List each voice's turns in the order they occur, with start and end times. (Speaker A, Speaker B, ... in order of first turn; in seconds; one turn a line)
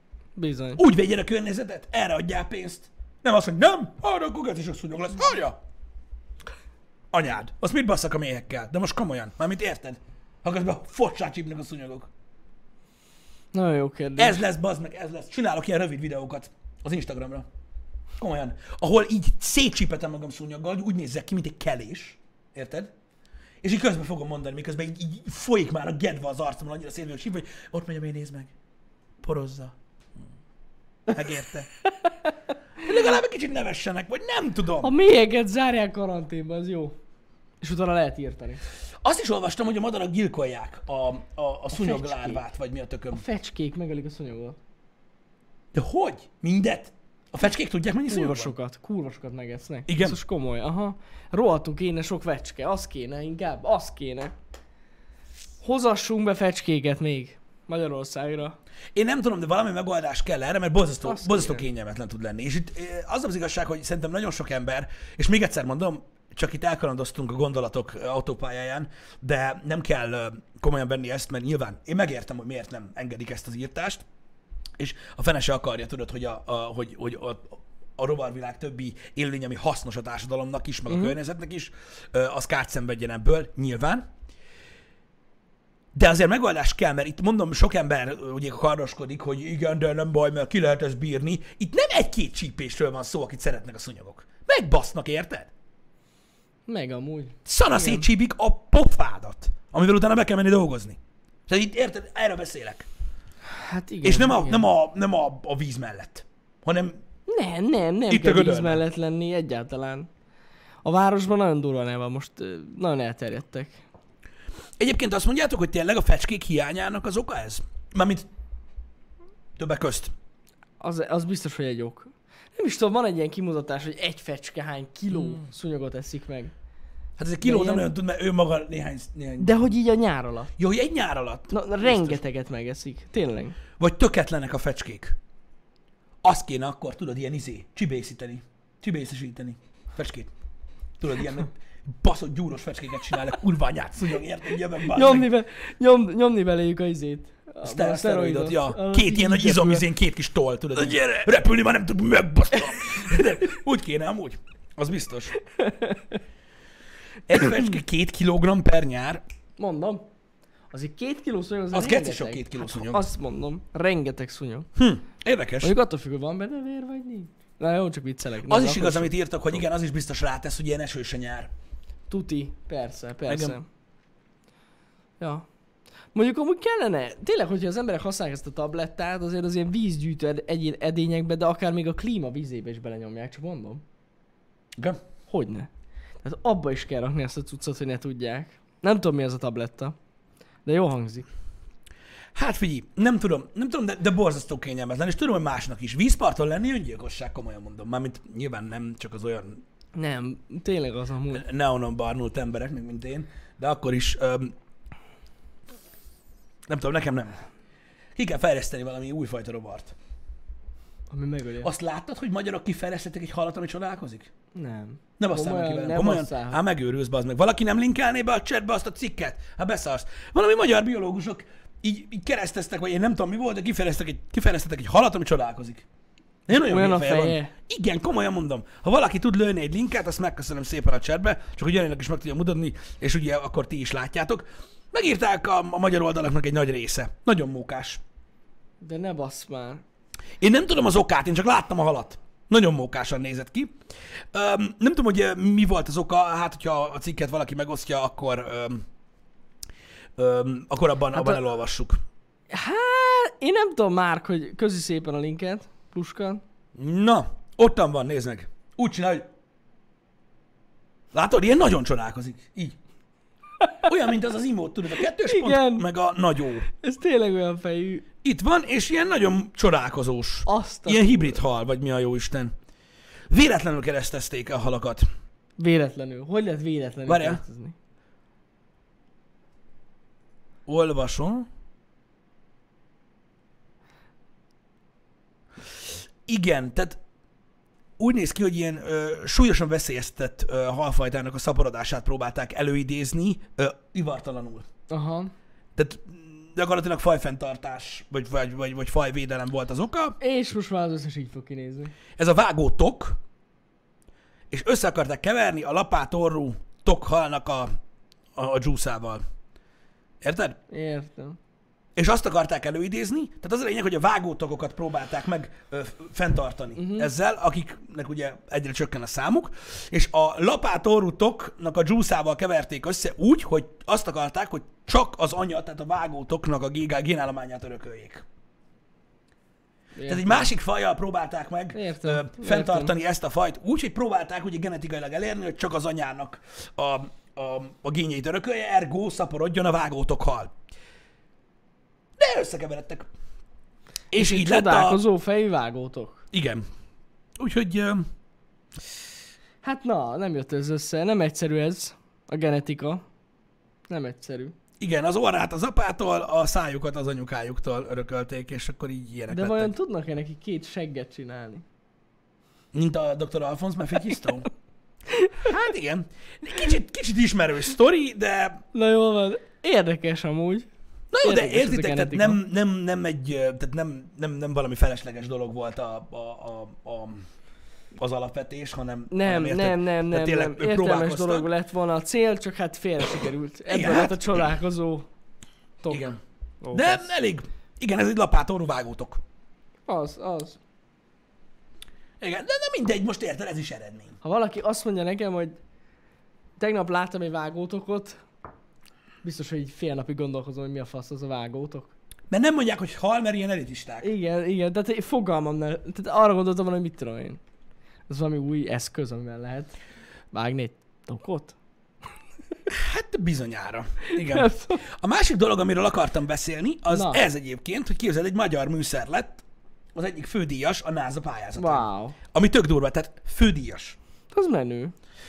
Speaker A: 0.4-0.8
Speaker B: 0.8-5.6
Speaker B: 7.1-12.1
Speaker A: 13.5-14.4
Speaker B: 14.2-17.5
Speaker B: 18.2-22.9
Speaker B: 23.6-28.5
Speaker B: 29.2-29.7
Speaker B: 31.1-31.7
Speaker B: 32.8-34.9
Speaker A: 34.8-37.0
Speaker A: 37.6-38.6
Speaker B: 39.0-43.2
Speaker A: 41.7-42.4
Speaker A: 43.1-44.6
Speaker B: 45.7-48.5
Speaker A: 48.1-54.3
Speaker B: 49.9-50.2
Speaker A: 55.6-58.6
Speaker B: 59.0-74.0
Speaker A: 61.0-61.6
Speaker B: 74.8-84.1
Speaker A: 80.9-81.1
Speaker B: 85.9-95.5
Speaker A: 96.7-98.1
Speaker B: 97.5-102.9
Speaker A: 103.5-104.7
Speaker B: 104.0-107.0
Speaker A: 107.3-110.1
Speaker B: 108.1-108.8
Speaker A: 110.8-113.8
Speaker B: 114.8-118.3
Speaker B: 119.6-120.1
Speaker A: 120.8-126.5
Speaker B: 127.2-129.5
Speaker A: 127.4-127.9
Speaker A: 129.4-130.5
Speaker B: 130.6-132.2
Speaker A: 131.5-133.6
Speaker B: 133.8-135.2
Speaker B: 136.2-140.3
Speaker B: 141.0-145.3
Speaker A: 144.9-149.9
Speaker B: 147.6-155.3
Speaker A: 155.4-156.2
Speaker B: 157.3-159.2
Speaker A: 159.6-160.1
Speaker A: 160.7-164.7
Speaker B: 161.7-163.1
Speaker B: 164.8-165.8
Speaker A: 165.6-169.6
Speaker B: 168.4-171.5
Speaker A: 172.1-173.7
Speaker B: 173.3-173.6
Speaker A: 175.2-175.4
Speaker A: 176.1-183.8
Speaker A: 185.3-185.7
Speaker A: 186.2-189.9
Speaker A: 190.7-191.3
Speaker B: 192.3-199.6
Speaker A: 199.9-201.4
Speaker B: 201.3-204.6
Speaker B: 206.7-207.4
Speaker B: 208.2-209.9
Speaker A: 211.1-211.7
Speaker B: 211.6-214.3
Speaker A: 214.6-216.6
Speaker B: 215.2-225.9
Speaker B: 226.5-238.0
Speaker A: 226.5-227.5
Speaker A: 238.8-239.8
Speaker B: 240.4-243.8
Speaker B: 244.3-248.8
Speaker B: 250.2-252.0
Speaker A: 251.1-251.4
Speaker A: 252.5-256.4
Speaker B: 256.8-259.3
Speaker B: 261.1-262.8
Speaker B: 263.8-266.7
Speaker A: 265.2-265.9
Speaker A: 266.7-268.1
Speaker B: 268.2-272.5
Speaker A: 270.5-271.4
Speaker B: 273.3-275.1
Speaker A: 275.6-277.8
Speaker B: 277.1-277.4
Speaker B: 280.7-281.5
Speaker B: 285.9-287.0
Speaker B: 288.0-294.7
Speaker A: 294.9-295.3
Speaker B: 295.8-300.2
Speaker A: 300.2-301.9
Speaker B: 302.2-303.2
Speaker B: 304.5-307.7
Speaker B: 308.4-309.2
Speaker B: 310.2-310.6
Speaker A: 310.7-311.4
Speaker B: 312.0-328.2
Speaker A: 316.8-317.1
Speaker A: 329.9-330.5
Speaker B: 330.1-340.5
Speaker A: 331.7-332.9
Speaker B: 342.2-343.1
Speaker B: 344.1-345.0
Speaker A: 344.1-346.2
Speaker B: 346.3-346.6
Speaker B: 347.4-348.1
Speaker A: 349.6-353.0
Speaker A: 353.9-354.6
Speaker B: 354.8-359.7
Speaker A: 359.3-361.6
Speaker B: 362.7-364.5
Speaker B: 365.4-368.6
Speaker A: 368.7-370.7
Speaker B: 371.1-377.3
Speaker A: 371.2-372.4
Speaker B: 377.9-381.5
Speaker A: 379.1-385.1
Speaker B: 383.7-384.5
Speaker A: 385.8-386.1
Speaker B: 385.9-386.2
Speaker A: 386.6-387.1
Speaker B: 386.7-389.2
Speaker A: 389.9-390.6
Speaker B: 392.2-394.2
Speaker A: 394.2-395.6
Speaker A: 396.6-398.2
Speaker A: 399.2-401.9
Speaker B: 402.3-404.1
Speaker A: 404.0-407.4
Speaker A: 408.1-409.7
Speaker A: 410.3-411.6
Speaker B: 412.7-419.4
Speaker A: 414.1-414.8
Speaker A: 416.9-417.2
Speaker B: 419.9-424.0
Speaker A: 421.6-422.2
Speaker A: 424.3-424.9